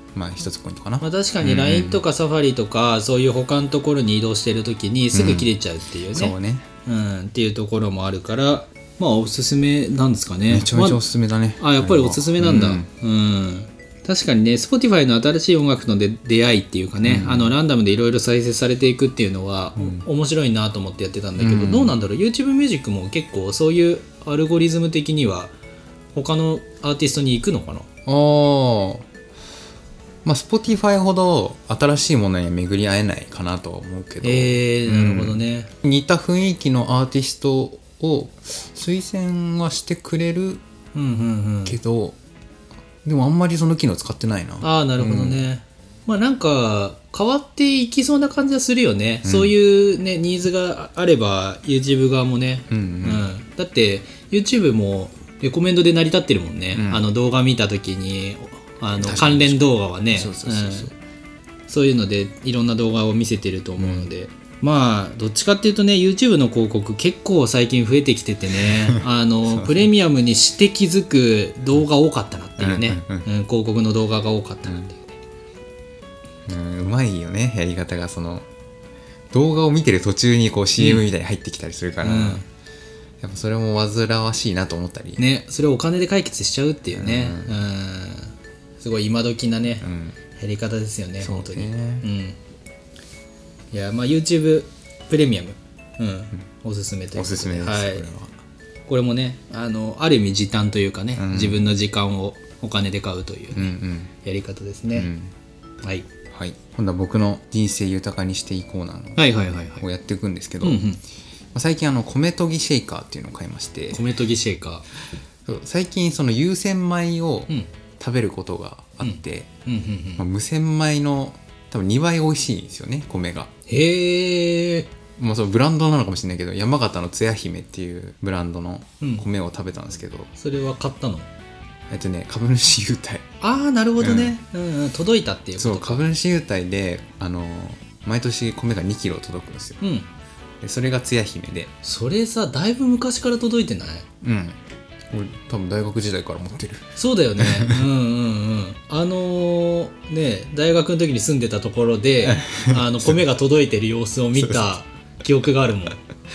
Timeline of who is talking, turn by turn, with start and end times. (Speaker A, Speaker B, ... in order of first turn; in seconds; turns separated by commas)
Speaker A: 0.1-2.0, Speaker B: 1.0-11.0, Speaker A: 5.1-5.5, Speaker A: 6.1-6.7, Speaker A: 10.5-12.9, Speaker B: 11.6-25.5, Speaker A: 17.0-17.5, Speaker A: 19.8-20.0, Speaker A: 21.4-21.9, Speaker B: 26.1-27.9, Speaker A: 28.1-29.1, Speaker A: 30.2-40.6, Speaker B: 34.2-35.7, Speaker B: 40.9-41.8, Speaker A: 41.6-42.2, Speaker A: 43.0-45.5, Speaker B: 44.6-60.9, Speaker A: 49.2-49.5, Speaker A: 52.7-53.2, Speaker A: 56.7-57.0, Speaker A: 59.0-60.9, Speaker B: 61.7-75.1, Speaker A: 63.8-64.1, Speaker A: 68.6-69.9, Speaker A: 72.6-73.3, Speaker A: 74.7-74.9, Speaker A: 76.5-78.5, Speaker A: 79.3-82.4, Speaker B: 80.8-81.0, Speaker B: 82.0-82.5, Speaker A: 83.2-85.2, Speaker B: 85.2-92.4, Speaker A: 86.9-87.6, Speaker A: 89.8-90.2, Speaker A: 91.2-92.1, Speaker B: 93.7-98.1, Speaker A: 97.1-98.3, Speaker B: 98.9-105.1, Speaker A: 101.2-101.6, Speaker A: 103.5-104.1, Speaker A: 104.9-105.3, Speaker A: 106.3-109.3, Speaker B: 109.2-109.8, Speaker A: 109.8-110.8, Speaker B: 110.6-111.0, Speaker A: 111.5-114.0, Speaker B: 113.9-114.8, Speaker A: 115.5-119.5, Speaker B: 119.0-120.2, Speaker A: 120.2-123.5, Speaker B: 123.7-124.9, Speaker A: 125.2-130.3, Speaker B: 129.0-129.2, Speaker B: 130.4-131.3, Speaker A: 131.9-133.3, Speaker B: 133.4-136.0, Speaker A: 134.0-134.3, Speaker A: 135.6-139.8, Speaker B: 139.8-140.1, Speaker A: 140.6-141.7, Speaker B: 141.8-144.1, Speaker A: 144.2-144.6, Speaker A: 145.1-147.9, Speaker B: 147.0-156.0, Speaker A: 152.2-153.2, Speaker A: 154.3-154.7